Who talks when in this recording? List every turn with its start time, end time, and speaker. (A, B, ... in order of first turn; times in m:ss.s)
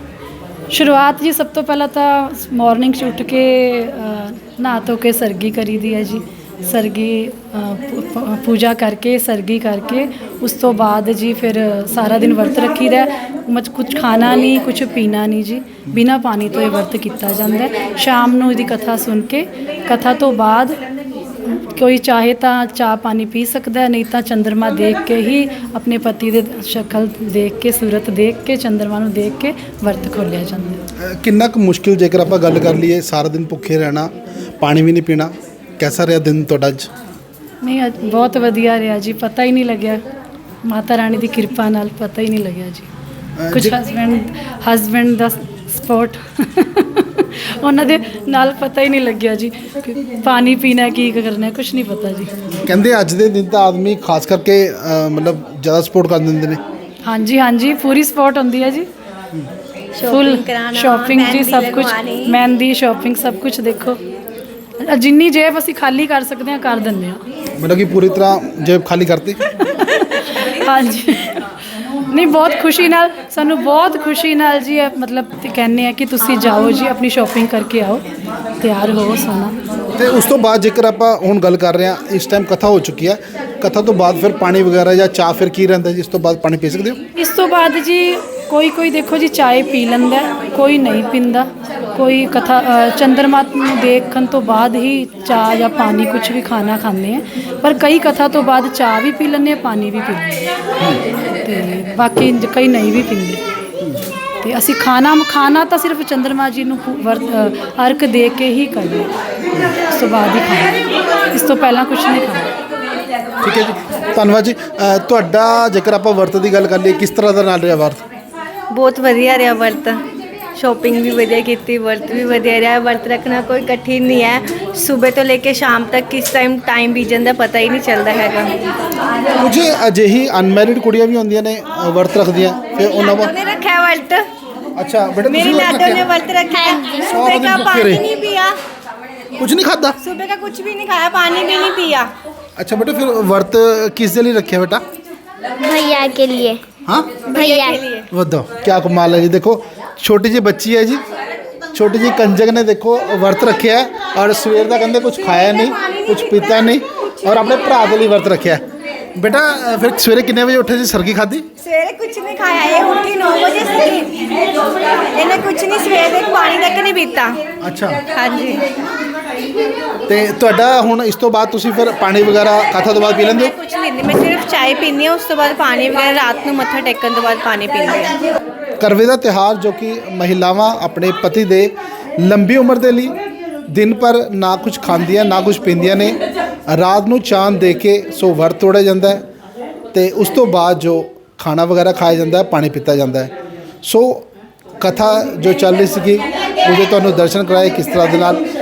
0:00.7-0:20.8 A
0:21.6-0:30.8 A
0:31.0-0:36.9 B
0:37.6-0:40.0 A
0:40.6-0:42.9 A
0:43.4-0:43.8 B
0:43.5-0:52.4 A
0:52.5-0:56.6 B
0:57.0-0:58.9 A
1:00.0-1:02.4 C
1:00.1-1:04.0 A
1:04.8-1:07.2 A
1:07.6-1:09.4 B
1:09.5-1:18.1 A
1:18.6-1:19.6 A
1:20.0-1:27.0 B
1:27.1-1:40.3 A
1:41.4-1:43.4 A
1:44.4-1:49.1 A
1:49.7-1:50.8 A
1:51.3-1:52.5 A
1:53.4-1:58.0 B
1:58.7-2:00.0 C
2:00.6-2:08.6 C
2:09.4-2:13.3 B
2:13.2-2:14.3 C
2:14.8-2:16.0 B
2:15.2-2:18.6 C
2:16.5-2:17.1 D
2:17.0-2:18.0 B
2:19.4-2:20.0 B
2:20.0-2:22.1 C
2:22.6-2:24.8 B
2:25.6-2:26.6 D
2:26.8-2:27.2 B
2:27.3-2:28.1 C
2:27.3-2:27.8 D
2:28.1-2:31.0 B
2:31.7-2:38.6 B
2:39.1-2:41.5 B
2:41.6-2:44.2 C
2:45.1-2:47.4 C
2:47.6-2:48.0 B
2:48.1-2:48.6 C
2:50.1-2:53.5 B
2:53.5-2:58.2 C
2:58.8-3:03.1 B
3:03.7-3:09.2 B
3:09.9-3:14.3 B
3:14.8-3:18.4 B